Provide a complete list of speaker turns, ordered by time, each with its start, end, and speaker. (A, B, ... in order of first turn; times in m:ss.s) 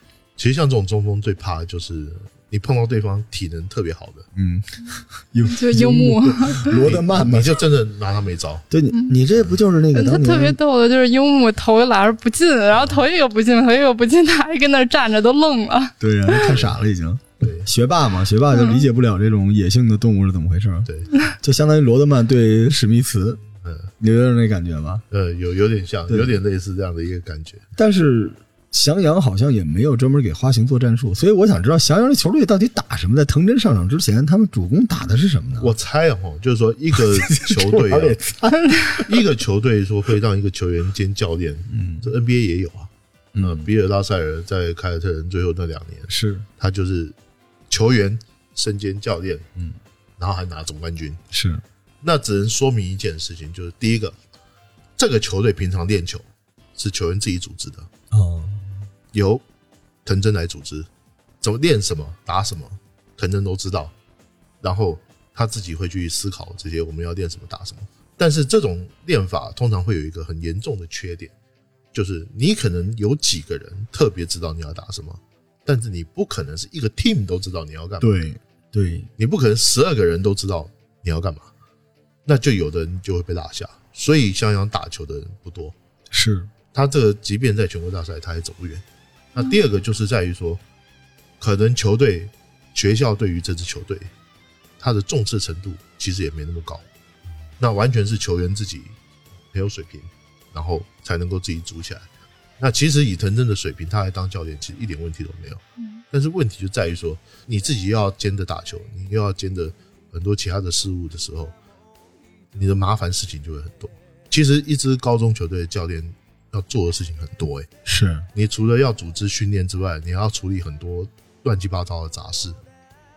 0:00.4-0:04.3 A
0:04.3-0:07.6 B
0:05.5-0:06.8 C
0:06.8-0:08.6 A
0:08.7-0:10.6 B
0:08.9-0:09.2 C
0:09.9-0:16.5 C
0:16.0-0:23.4 B
0:16.5-0:16.7 A
0:17.4-0:17.7 A
0:18.5-0:18.8 C
0:20.8-0:21.1 A
0:23.6-0:23.9 A
0:24.0-0:25.0 B
0:25.1-0:27.6 A
0:26.1-0:26.3 B
0:27.8-0:35.7 B
0:35.6-0:38.2 A
0:36.9-0:39.2 B
0:39.0-0:47.2 A
0:41.7-0:42.1 B
0:43.3-0:43.7 B
0:46.1-0:46.4 B
0:47.7-0:49.5 A
0:50.2-0:51.2 A
0:51.3-0:51.6 B
0:52.0-0:54.2 A
0:55.0-0:57.9 A
0:58.1-0:58.8 B
0:59.1-0:59.4 A
1:00.0-1:00.9 A
1:01.4-1:03.9 A
1:04.6-1:11.3 A
1:11.9-1:18.1 A
1:18.0-1:19.1 B
1:19.2-1:21.5 A
1:22.2-1:25.7 A
1:26.1-1:26.5 B
1:26.7-1:28.8 A
1:29.3-1:30.6 A
1:31.4-1:34.1 A
1:34.8-1:36.8 A
1:37.6-1:39.0 A
1:39.5-1:42.1 A
1:42.6-1:51.5 A
1:52.5-1:57.7 A
1:57.8-1:58.3 B
1:58.3-2:02.6 A